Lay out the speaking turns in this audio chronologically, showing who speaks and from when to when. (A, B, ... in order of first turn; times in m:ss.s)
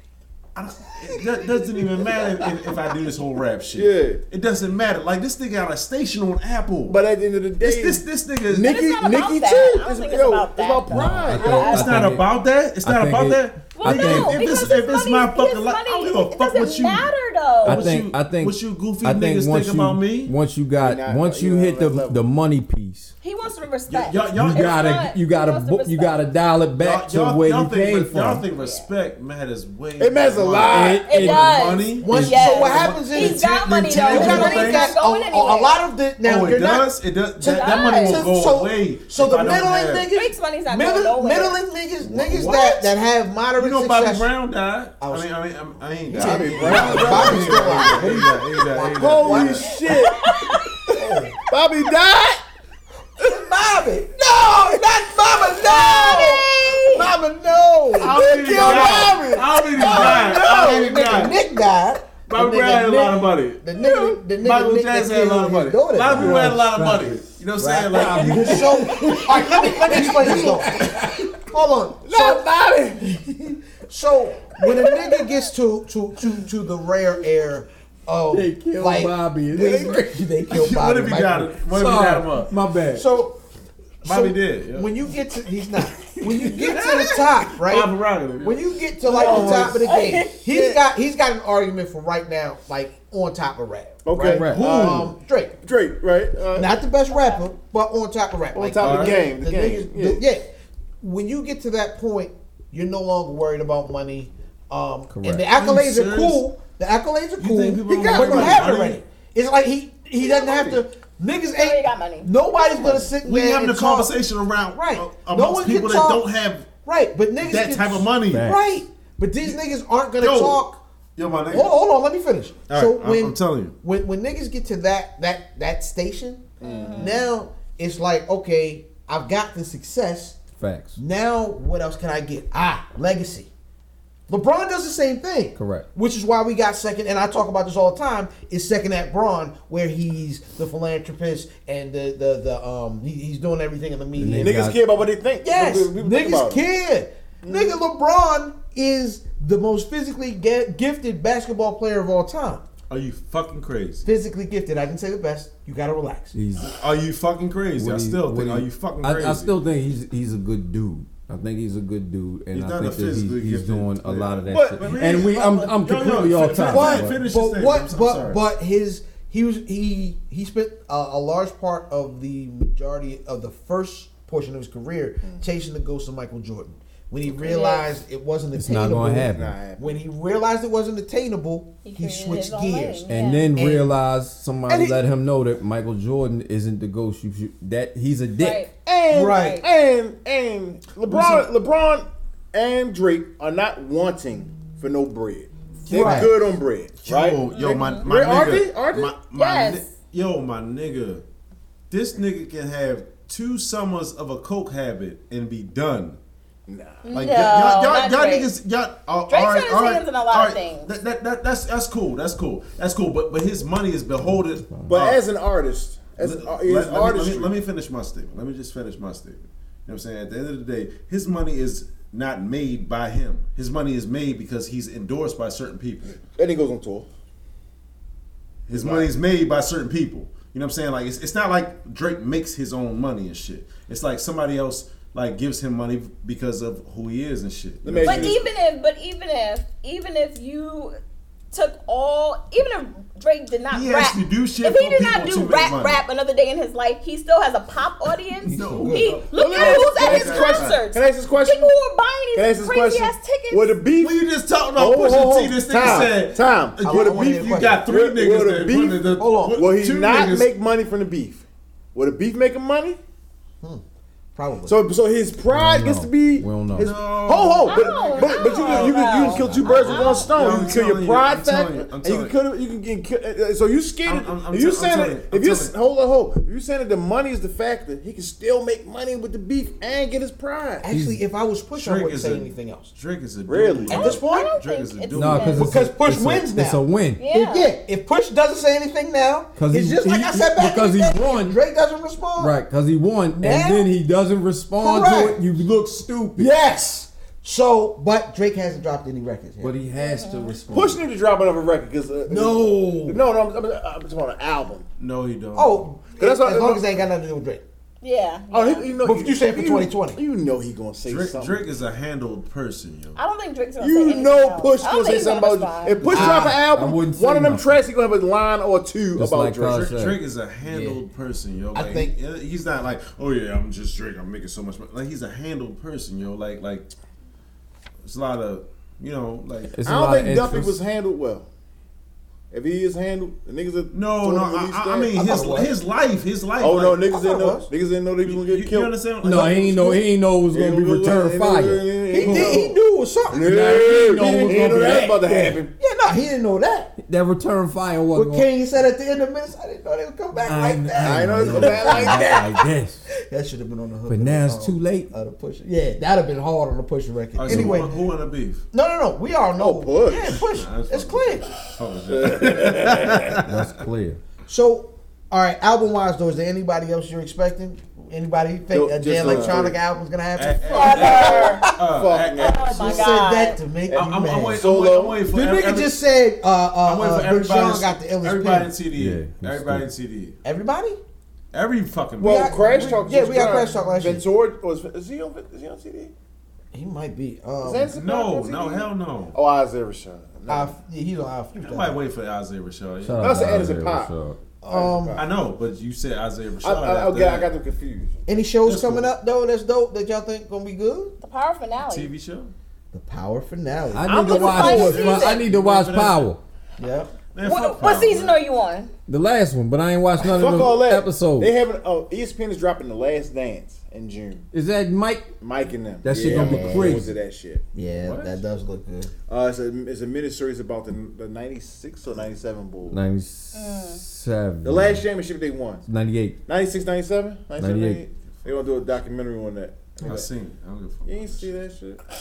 0:00.6-0:07.0 A
0:03.8-0:04.2 B
0:06.9-0:11.7 B
0:07.6-0:08.8 A
0:08.6-0:12.0 C
0:10.9-0:12.3 D
0:11.4-0:17.1 A
0:12.8-0:14.4 D
0:13.8-0:17.9 C
0:17.6-0:23.1 D
0:17.6-0:20.3 A
0:20.8-0:22.3 B
0:23.2-0:26.2 C
0:23.9-0:24.8 A
0:24.4-0:28.4 D
0:26.8-0:34.9 A
0:28.6-0:28.9 C
0:30.0-0:31.1 B
0:30.6-0:32.4 D
0:31.0-0:35.8 C
0:32.0-0:44.3 E
0:36.2-0:40.1 A
0:37.4-0:38.2 C
0:40.1-0:41.6 C
0:42.0-0:42.9 A
0:43.6-0:49.7 A
0:45.0-0:45.3 E
0:46.1-0:49.7 E
0:46.1-0:50.3 B
0:49.9-0:50.8 C
0:50.9-0:51.4 E
0:51.5-0:52.4 B
0:53.2-1:06.7 E
0:55.6-0:57.1 C
0:58.0-1:01.4 A
0:58.0-1:00.5 B
0:59.8-1:01.0 C
1:02.3-1:03.6 A
1:04.4-1:08.9 A
1:06.1-1:07.3 D
1:07.6-1:12.4 E
1:07.9-1:11.4 D
1:12.1-1:12.5 B
1:12.2-1:13.2 D
1:13.8-1:21.6 E
1:18.3-1:20.3 D
1:20.5-1:22.5 A
1:21.6-1:23.1 D
1:22.9-1:23.4 E
1:24.0-1:24.9 A
1:24.0-1:35.6 E
1:26.2-1:28.6 A
1:29.1-1:29.9 B
1:29.1-1:30.4 C
1:30.5-1:30.8 B
1:34.0-1:36.7 B
1:34.2-1:34.8 D
1:34.5-1:35.1 A
1:36.5-1:54.2 E
1:37.1-1:37.5 C
1:38.5-1:40.2 B
1:38.8-1:39.2 A
1:45.1-1:45.5 D
1:45.6-1:46.4 A
1:47.4-1:49.0 A
1:47.9-1:48.7 B
1:50.3-1:50.8 B
1:51.6-1:52.3 C
1:53.2-1:56.7 A
1:54.7-1:56.3 E
1:56.8-2:00.8 E
1:57.4-1:58.5 A
1:58.3-1:58.6 D
2:00.2-2:00.6 A
2:01.2-2:01.7 A
2:01.5-2:10.4 E
2:02.7-2:03.8 A
2:06.6-2:07.2 B
2:06.6-2:07.2 C
2:10.6-2:11.0 D
2:11.0-2:13.5 E
2:14.3-2:24.7 E
2:15.6-2:15.9 D
2:24.2-2:24.8 D
2:24.4-2:26.6 B
2:25.4-2:32.6 E
2:27.4-2:27.8 B
2:32.9-2:34.0 A
2:34.0-2:36.4 E
2:36.3-2:36.8 D
2:36.6-2:39.6 A
2:37.8-2:47.2 D
2:42.5-2:48.4 A
2:44.5-2:45.5 B
2:46.6-3:03.9 E
2:57.4-2:57.9 C
2:58.6-2:59.6 D
2:58.9-3:00.0 B
3:01.8-3:03.5 C
3:03.1-3:08.7 D
3:04.7-3:05.0 B
3:08.4-3:08.7 C
3:08.8-3:17.4 B
3:09.1-3:09.6 E
3:09.2-3:09.6 C
3:11.1-3:11.5 A
3:15.9-3:16.3 A
3:15.9-3:16.3 E
3:16.0-3:16.3 D
3:17.0-3:21.2 A
3:17.5-3:18.1 C
3:18.0-3:19.1 B
3:19.3-3:19.9 C
3:21.9-3:26.2 A
3:26.7-3:27.2 B
3:27.0-3:28.5 C
3:27.1-3:35.2 A
3:29.3-3:30.9 C
3:34.2-3:34.9 D
3:34.9-3:37.5 B
3:36.2-3:46.2 A
3:46.2-3:47.1 B
3:48.7-3:58.4 A
3:48.7-3:49.1 B
3:57.8-3:58.5 B
3:58.0-4:01.0 C
4:01.5-4:13.8 C
4:03.7-4:06.0 A
4:08.5-4:10.8 A
4:08.6-4:09.2 E
4:09.3-4:11.7 B
4:12.3-4:14.2 B
4:14.0-4:20.5 A
4:14.8-4:23.0 B
4:16.8-4:17.8 E
4:19.2-4:19.6 E
4:24.4-4:24.8 E
4:24.7-4:40.9 B
4:25.5-4:26.9 D
4:26.8-4:29.2 A
4:27.7-4:30.8 C
4:29.2-4:30.1 D
4:29.8-4:32.4 A
4:34.0-4:35.7 A
4:40.8-4:42.9 E
4:40.9-4:41.2 D
4:41.7-4:45.7 A
4:43.5-4:44.1 B
4:43.9-4:45.7 C
4:43.9-4:44.6 E
4:45.1-4:47.2 D
4:45.6-4:52.6 E
4:47.2-4:47.7 C
4:49.6-4:51.6 D
4:52.4-4:56.5 D
4:53.3-4:53.9 E
4:54.8-4:55.4 E
4:56.4-4:59.7 E
4:59.6-5:01.0 D
5:00.0-5:00.6 C
5:00.7-5:04.9 B
5:02.3-5:03.2 E
5:05.0-5:05.9 A
5:05.6-5:07.6 E
5:06.2-5:06.9 B
5:08.0-5:08.9 C
5:08.5-5:11.6 B
5:09.0-5:10.2 E
5:11.0-5:13.2 A
5:13.2-5:16.1 C
5:13.8-5:19.9 B
5:16.1-5:16.7 E
5:16.2-5:17.7 D
5:19.2-5:21.0 D
5:19.8-5:26.9 A
5:21.7-5:22.2 E
5:28.0-5:29.8 A
5:29.7-5:30.8 D
5:29.8-5:31.5 B
5:32.5-5:35.3 B
5:33.9-5:37.1 A
5:35.1-5:35.8 E
5:36.6-5:39.5 B
5:37.0-5:37.7 E
5:38.2-5:40.0 A
5:39.2-5:42.0 D
5:40.5-5:42.8 B
5:42.1-5:46.9 E
5:42.2-5:42.6 A
5:43.3-5:45.7 B
5:43.4-5:45.6 D
5:47.0-5:48.5 D
5:48.2-5:58.0 E
5:50.4-5:53.0 D
5:51.0-5:52.5 B
5:54.1-5:55.1 D
5:57.4-5:58.6 A
5:57.5-5:57.8 D
5:58.7-6:01.5 E
5:59.6-6:00.4 B
6:00.4-6:03.7 A
6:02.1-6:03.4 B
6:03.4-6:04.2 D
6:04.5-6:11.6 E
6:08.7-6:09.8 B
6:09.2-6:09.6 A
6:10.4-6:12.8 A
6:10.7-6:11.7 C
6:10.8-6:13.2 B
6:12.4-6:13.6 C
6:12.8-6:14.7 E
6:13.9-6:16.0 A
6:14.6-6:15.2 B
6:15.3-6:18.8 E
6:16.8-6:20.4 A
6:18.9-6:19.9 D
6:20.4-6:21.0 E
6:21.5-6:23.0 A
6:22.2-6:24.3 E
6:22.2-6:26.1 B
6:26.7-6:27.9 E
6:27.6-6:30.8 B
6:27.9-6:29.4 A
6:30.5-6:32.0 E
6:31.6-6:33.4 A
6:33.0-6:34.4 D
6:33.2-6:34.1 B
6:34.6-6:35.2 E
6:34.7-6:35.3 B
6:35.2-6:37.5 A
6:36.6-6:38.2 B
6:38.3-6:41.2 E
6:38.6-6:39.1 A
6:41.2-6:42.1 C
6:41.8-6:42.5 A
6:42.9-6:44.3 E
6:43.9-6:46.4 D
6:44.1-6:45.2 B
6:44.2-6:45.4 C
6:44.7-6:46.3 A
6:46.8-6:47.1 E
6:47.3-6:48.4 A
6:47.4-6:48.9 C
6:49.1-6:51.5 D
6:50.2-6:54.5 B
6:54.5-6:55.3 D
6:55.4-6:57.6 B
6:56.0-6:57.1 D
6:56.1-6:57.1 E
6:57.7-6:59.1 E
6:58.0-6:58.4 A
6:59.3-7:03.0 B
7:02.9-7:05.0 D
7:03.5-7:04.0 C
7:04.6-7:05.9 B
7:05.9-7:06.4 D
7:06.5-7:10.3 B
7:07.6-7:08.0 D
7:10.0-7:11.6 A
7:11.1-7:12.0 B